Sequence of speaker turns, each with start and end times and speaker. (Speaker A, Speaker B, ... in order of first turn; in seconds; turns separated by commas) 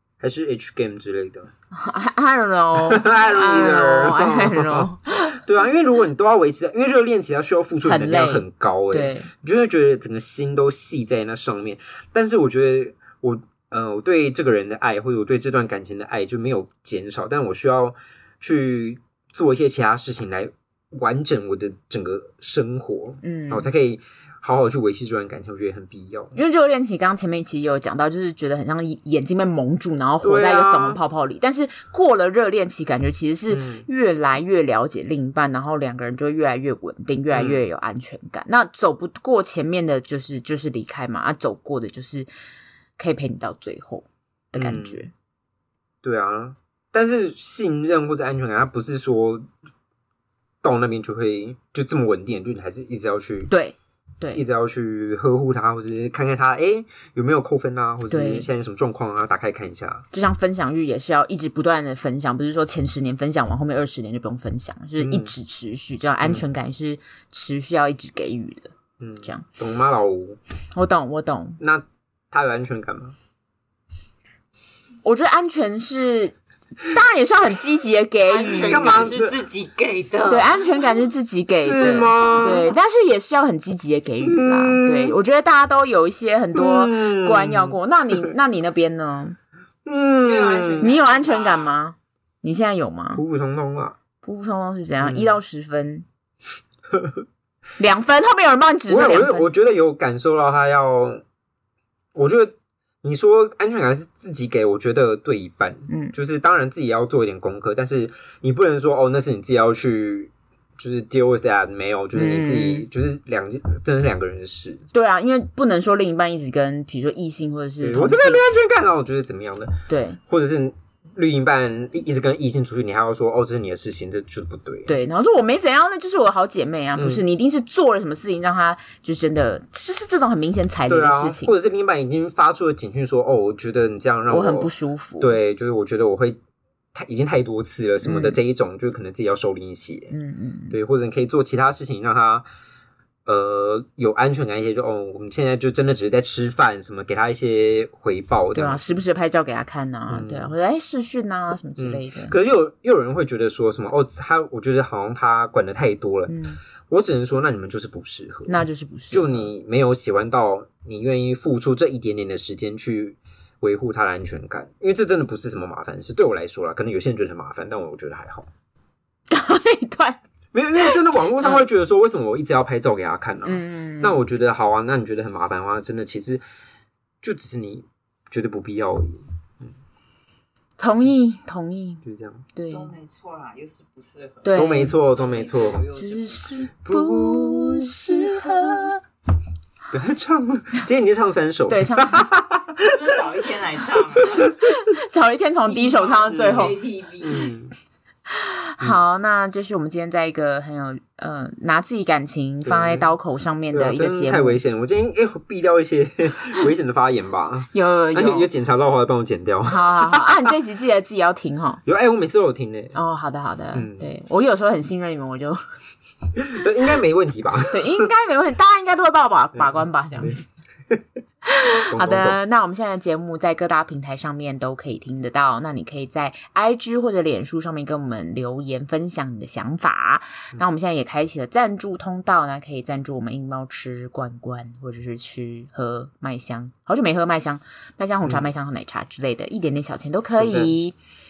Speaker A: 0.2-1.5, Speaker B: 1.7-5.4, Speaker A: 2.8-26.4, Speaker B: 7.8-9.3, Speaker B: 23.2-23.7, Speaker B: 26.3-42.3, Speaker A: 30.2-31.0, Speaker A: 33.5-33.9, Speaker A: 37.3-37.6, Speaker B: 43.0-45.1, Speaker A: 44.5-45.0, Speaker A: 46.0-49.5, Speaker A: 50.6-53.5, Speaker B: 53.5-54.4, Speaker A: 54.3-60.0, Speaker B: 58.1-58.5, Speaker B: 60.1-69.4, Speaker A: 65.0-65.3, Speaker A: 69.0-70.4, Speaker B: 70.7-71.6, Speaker A: 71.6-73.2, Speaker B: 75.0-79.2, Speaker C: 78.3-80.8, Speaker A: 78.5-79.4, Speaker B: 80.3-89.3, Speaker A: 81.5-82.7, Speaker A: 84.2-85.2, Speaker A: 86.5-87.8, Speaker A: 89.8-90.9, Speaker C: 90.2-91.8, Speaker B: 90.8-93.2, Speaker A: 93.1-94.0, Speaker B: 94.2-96.0, Speaker A: 95.0-95.4, Speaker A: 96.9-97.2, Speaker B: 97.8-99.5, Speaker A: 98.9-101.2, Speaker A: 102.1-114.8, Speaker B: 105.9-106.1, Speaker B: 112.1-112.9, Speaker B: 114.9-118.4, Speaker A: 117.8-124.9, Speaker B: 119.9-120.2, Speaker B: 124.9-131.5, Speaker A: 127.0-127.2, Speaker A: 130.9-136.4, Speaker B: 134.3-135.4, Speaker A: 136.9-140.1, Speaker B: 138.0-138.4, Speaker B: 140.1-140.8, Speaker A: 140.7-142.4, Speaker A: 143.2-148.8, Speaker B: 148.5-152.3, Speaker A: 150.1-150.5, Speaker A: 151.8-156.4, Speaker B: 156.3-156.6, Speaker A: 156.9-158.6, Speaker B: 158.5-159.5, Speaker A: 159.1-168.5, Speaker B: 169.3-170.2, Speaker A: 170.5-176.4, Speaker B: 170.8-171.6, Speaker B: 173.4-174.2, Speaker A: 177.2-179.7, Speaker B: 180.8-182.0, Speaker A: 182.0-182.4, Speaker B: 182.5-182.9, Speaker C: 182.7-186.5, Speaker B: 184.4-184.9, Speaker A: 184.5-185.9, Speaker B: 185.9-189.0, Speaker A: 186.8-188.8, Speaker A: 189.9-193.2, Speaker B: 191.7-192.3, Speaker C: 192.8-194.5, Speaker A: 194.3-194.7, Speaker B: 194.6-196.8, Speaker C: 195.7-197.5, Speaker A: 196.3-197.7, Speaker B: 198.3-204.6, Speaker A: 202.6-203.1, Speaker A: 203.7-210.5, Speaker B: 207.7-208.5, Speaker B: 209.7-211.8, Speaker A: 211.8-212.9, Speaker B: 212.9-215.6, Speaker A: 213.7-214.1, Speaker A: 216.4-218.1, Speaker B: 217.7-220.4, Speaker A: 219.5-221.0, Speaker B: 221.4-240.9, Speaker A: 221.6-222.4, Speaker A: 240.3-240.8